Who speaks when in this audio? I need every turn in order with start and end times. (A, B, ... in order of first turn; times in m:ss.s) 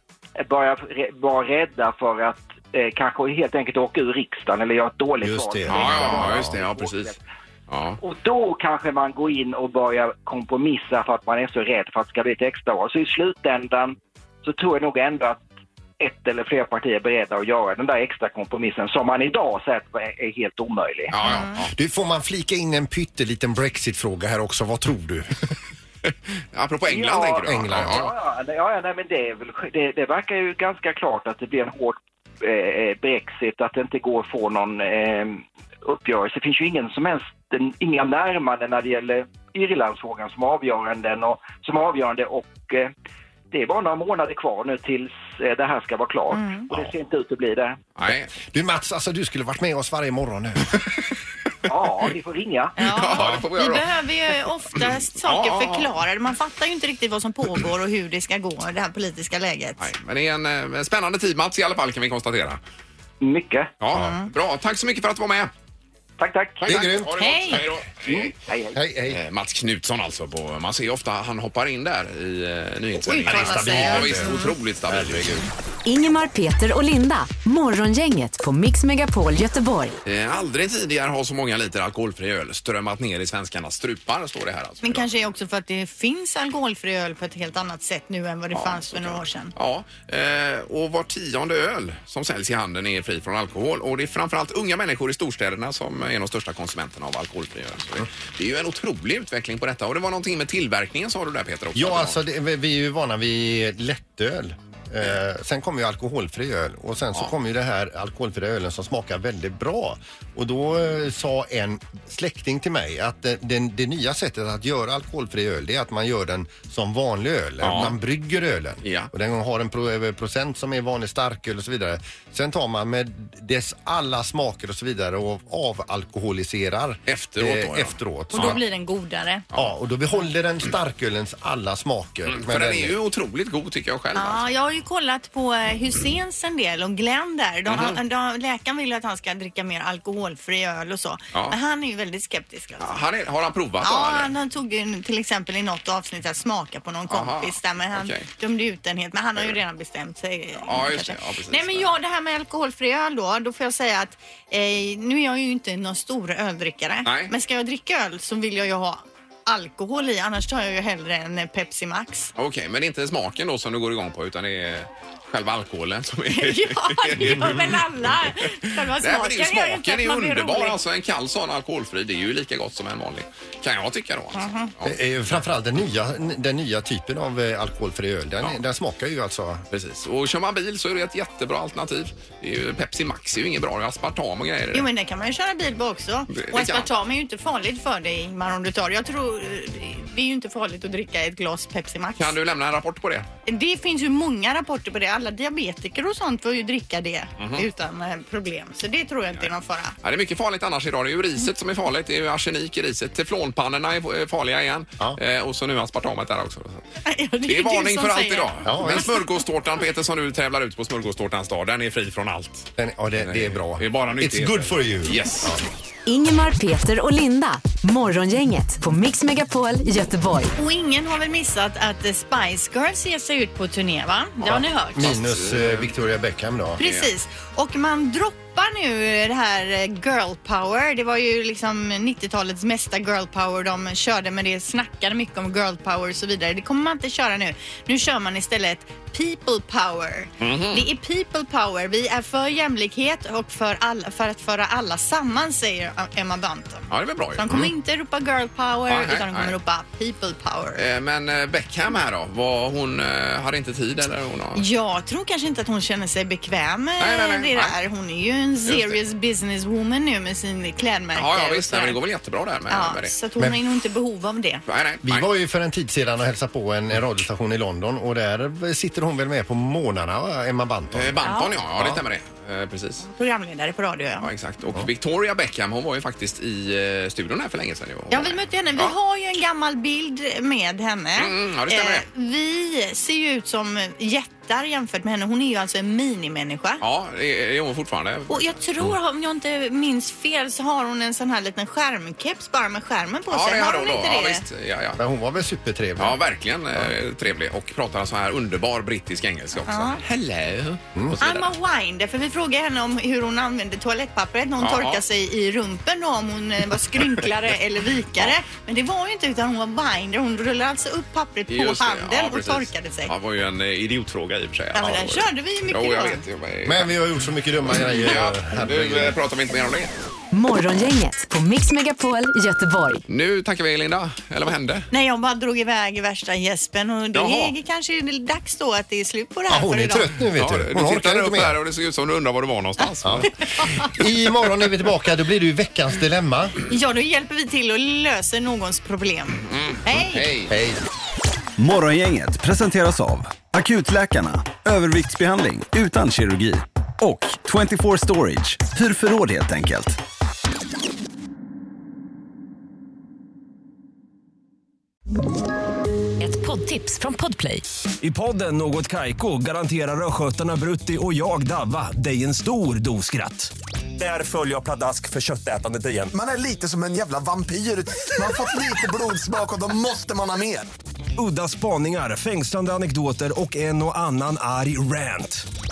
0:00.4-0:07.2 A
0:05.2-0:06.6 B
0:05.7-0:08.0 C
0:08.0-0:15.4 A
0:16.0-0:21.1 A
0:21.1-0:21.7 C
0:21.2-0:21.6 D
0:21.7-0:25.4 B
0:26.5-0:28.1 C
0:26.9-0:42.9 A
0:27.5-0:28.1 B
0:43.5-0:47.8 A
0:46.3-0:46.7 D
0:48.0-0:48.3 C
0:48.1-0:50.7 B
0:51.6-0:52.7 A
0:52.8-0:59.8 D
0:52.8-0:55.9 C
0:59.8-1:02.6 C
1:03.2-1:03.7 A
1:03.8-1:05.5 C
1:03.9-1:04.2 D
1:06.2-1:06.6 A
1:06.6-1:08.4 C
1:06.6-1:07.6 B
1:07.2-1:07.6 D
1:08.0-1:08.8 A
1:08.7-1:09.2 B
1:09.1-1:15.4 C
1:13.0-1:14.2 D
1:13.2-1:15.4 B
1:15.8-1:20.0 E
1:20.0-1:25.1 C
1:24.8-1:29.5 D
1:28.5-1:42.2 C
1:41.7-2:08.6 B
1:57.6-1:58.0 C
1:58.8-1:59.1 C
2:07.1-2:08.6 C
2:08.3-2:09.4 D
2:09.5-2:13.0 B
2:12.3-2:14.4 C
2:14.1-2:23.0 D
2:17.7-2:18.0 C
2:21.3-2:21.6 C
2:22.8-2:24.3 C
2:23.8-2:42.3 D
2:27.1-2:28.3 C
2:30.6-2:31.9 C
2:37.0-2:37.3 C
2:42.4-2:55.0 C
2:46.3-2:50.8 D
2:54.3-2:54.7 D
2:54.8-2:59.6 B
2:59.7-3:04.9 C
3:04.7-3:12.4 D
3:06.3-3:06.9 C
3:12.2-3:13.3 C
3:13.4-3:19.9 D
3:17.4-3:17.7 C
3:20.0-3:26.8 C
3:27.0-3:29.2 D
3:27.4-3:35.6 C
3:28.6-3:29.1 B
3:32.8-3:35.6 B
3:36.0-3:40.5 E
3:40.5-3:45.1 D
3:44.4-3:46.8 B
3:45.0-3:45.9 C
3:46.8-3:47.1 C
3:46.8-4:10.8 D
4:00.4-4:00.9 C
4:06.9-4:07.7 C
4:08.9-4:09.6 C
4:10.8-4:14.6 C
4:14.5-4:22.0 D
4:17.0-4:17.8 C
4:18.6-4:19.0 C
4:21.1-4:23.1 C
4:22.7-4:24.6 D
4:24.7-4:25.3 C
4:25.0-4:31.2 B
4:30.9-4:33.0 C
4:31.2-4:31.6 D
4:31.8-4:32.0 B
4:33.0-4:34.3 D
4:34.2-4:38.9 C
4:38.1-4:46.8 D
4:41.2-4:42.0 C
4:46.8-4:48.9 C
4:48.3-4:54.4 D
4:53.3-4:55.0 C
4:55.0-4:56.2 B
4:56.0-5:01.5 C
4:59.7-5:00.0 D
5:01.2-5:13.1 D
5:04.6-5:05.0 C
5:07.0-5:07.2 C
5:11.5-5:16.9 C
5:14.7-5:16.2 D
5:14.8-5:15.1 B
5:16.6-5:19.2 B
5:17.8-5:19.9 C
5:20.3-5:23.0 E
5:23.1-5:24.9 C
5:24.9-5:30.1 D
5:27.1-5:27.5 C
5:29.5-5:31.6 B
5:30.4-5:33.3 C
5:33.0-5:33.3 B
5:33.2-5:33.9 D
5:33.8-5:36.6 B
5:36.7-5:40.3 D
5:39.4-5:40.5 C
5:40.5-5:40.8 B
5:41.6-5:50.0 F
5:56.2-5:57.6 E
5:58.0-6:06.6 G
6:06.1-6:10.7 H
6:11.2-6:15.4 G